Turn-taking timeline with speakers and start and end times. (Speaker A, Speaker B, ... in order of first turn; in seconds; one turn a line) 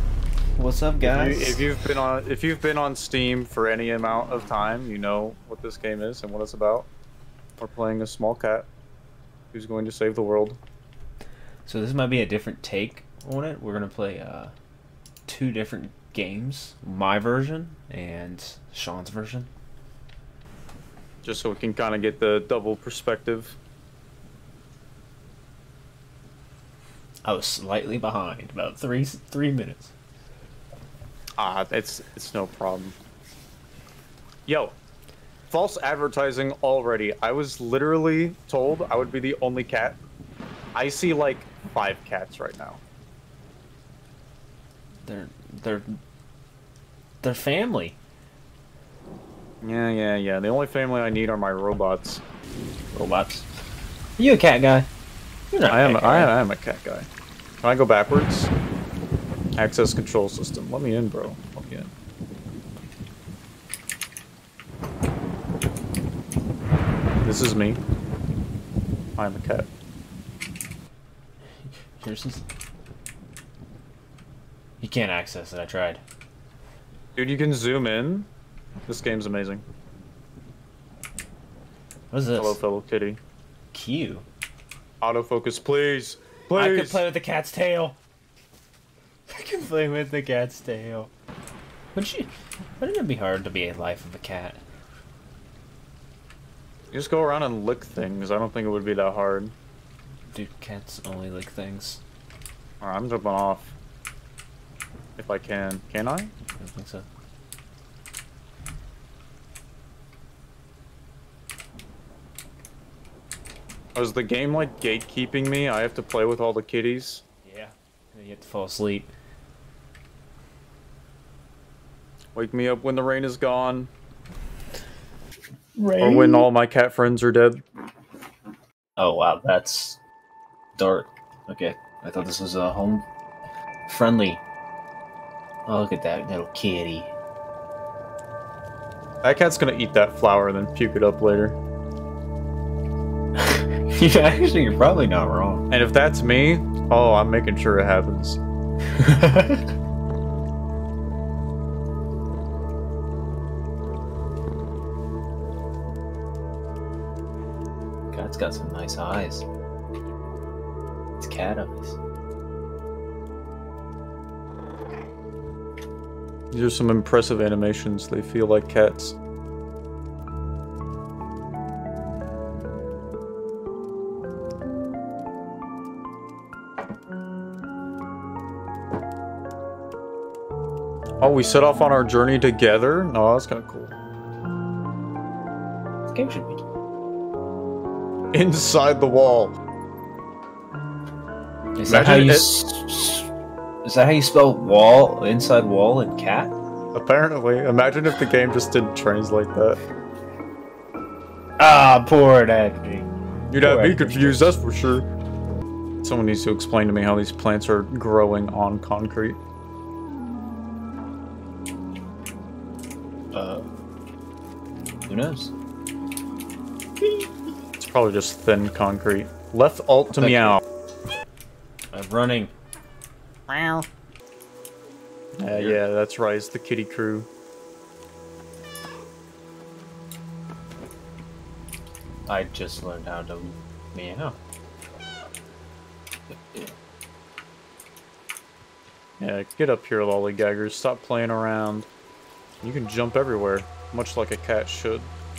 Speaker A: 0.6-1.6
Speaker B: 1.0-6.9
Speaker B: 7.6-8.7
Speaker B: 9.5-10.6
Speaker A: 11.7-14.5
Speaker A: 15.3-19.5
Speaker B: 21.2-23.6
Speaker A: 27.2-29.9
Speaker B: 31.4-33.0
Speaker B: 34.5-34.8
Speaker B: 35.5-40.0
Speaker B: 40.8-42.8
Speaker A: 45.0-46.0
Speaker A: 47.2-48.0
Speaker B: 49.6-52.2
Speaker A: 52.9-53.5
Speaker A: 54.2-54.9
Speaker A: 55.5-56.3
Speaker B: 55.7-57.1
Speaker B: 57.6-58.5
Speaker B: 59.6-61.9
Speaker B: 67.2-67.8
Speaker B: 69.2-69.7
Speaker A: 71.6-72.5
Speaker A: 74.8-76.0
Speaker B: 77.2-78.3
Speaker B: 78.9-79.6
Speaker A: 82.1-82.6
Speaker B: 82.4-83.2
Speaker A: 83.7-84.3
Speaker B: 85.0-87.0
Speaker A: 86.5-88.0
Speaker A: 89.3-91.1
Speaker A: 91.9-94.6
Speaker B: 96.9-99.5
Speaker A: 100.3-102.0
Speaker B: 102.8-103.8
Speaker B: 105.2-106.3
Speaker A: 106.6-107.1
Speaker B: 114.0-117.2
Speaker A: 117.4-119.1
Speaker B: 122.3-123.9
Speaker A: 125.8-126.5
Speaker B: 126.0-127.6
Speaker A: 129.0-130.0
Speaker A: 130.8-133.1
Speaker A: 133.9-134.4
Speaker A: 135.7-137.1
Speaker B: 139.2-141.6
Speaker A: 143.4-145.7
Speaker B: 145.7-148.4
Speaker A: 148.9-149.7
Speaker A: 158.1-159.4
Speaker A: 161.2-162.0
Speaker B: 166.5-169.2
Speaker B: 181.2-184.0
Speaker A: 186.1-186.6
Speaker B: 188.3-189.6
Speaker A: 191.8-193.3
Speaker B: 191.9-192.6
Speaker A: 193.8-196.5
Speaker B: 196.9-199.8
Speaker A: 201.6-204.5
Speaker B: 203.5-205.1
Speaker B: 206.0-209.4
Speaker A: 213.3-213.7
Speaker A: 215.1-215.5
Speaker A: 217.0-217.3
Speaker B: 217.8-220.6
Speaker A: 220.2-220.6
Speaker A: 221.9-222.5
Speaker B: 223.5-223.9
Speaker B: 225.4-227.3
Speaker A: 225.5-225.8
Speaker A: 232.3-234.4
Speaker A: 236.3-236.8
Speaker B: 239.2-241.9
Speaker B: 242.6-245.1